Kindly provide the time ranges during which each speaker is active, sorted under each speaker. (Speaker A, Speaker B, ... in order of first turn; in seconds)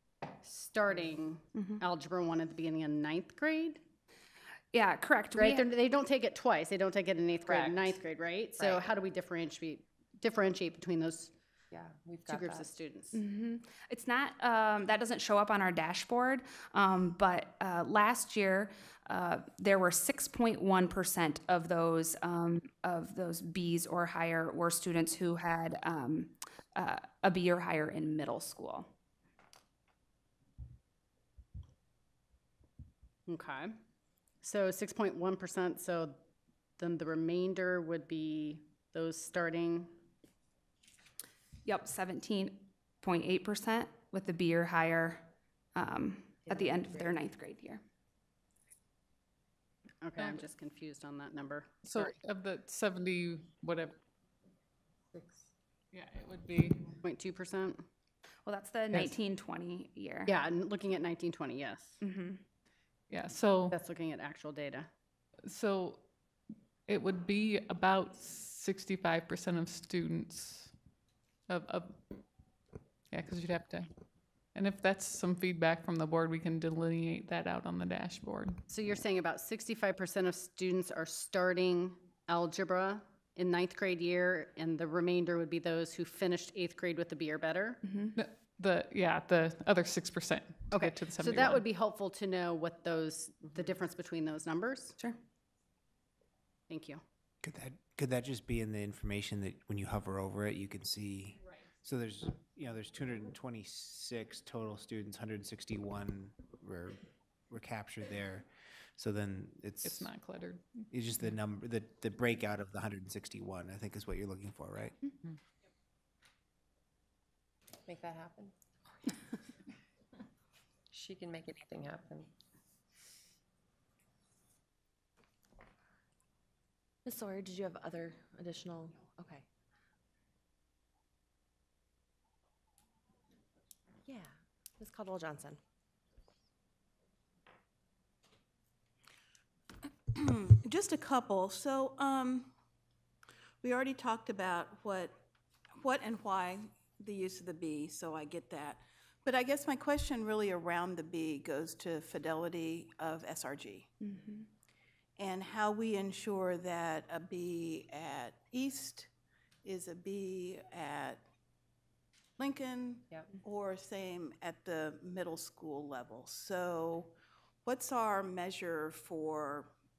Speaker A: 0.4-3.8, 5.3-11.3, 12.3-13.2, 33.3-33.8, 34.4-36.1, 36.8-39.9, 50.0-52.1, 57.0-57.9, 60.2-62.0, 63.7-64.9, 78.7-87.8, 90.7-95.0, 96.7-97.0
Speaker B: 1.5-1.8, 4.7-5.7, 13.1-28.9, 41.6-47.8, 58.5-60.3, 62.0-62.4, 87.8-88.2, 154.0-154.5
Speaker C: 7.5-8.0, 8.6-8.9, 11.7-12.7, 117.8-118.5, 120.9-122.3
Speaker D: 46.5-47.0, 127.0-129.4, 134.1-135.6
Speaker E: 51.8-54.0, 55.9-57.0, 63.1-63.8, 65.4-66.0, 66.8-70.8, 71.5-72.4, 73.1-74.0, 74.5-78.6, 88.1-91.6, 109.8-110.9
Speaker F: 97.4-110.2, 110.9-115.0
Speaker G: 140.1-142.5, 143.6-145.2, 145.8-153.9, 155.2-159.1, 159.6-161.2, 162.4-167.1, 167.6-169.7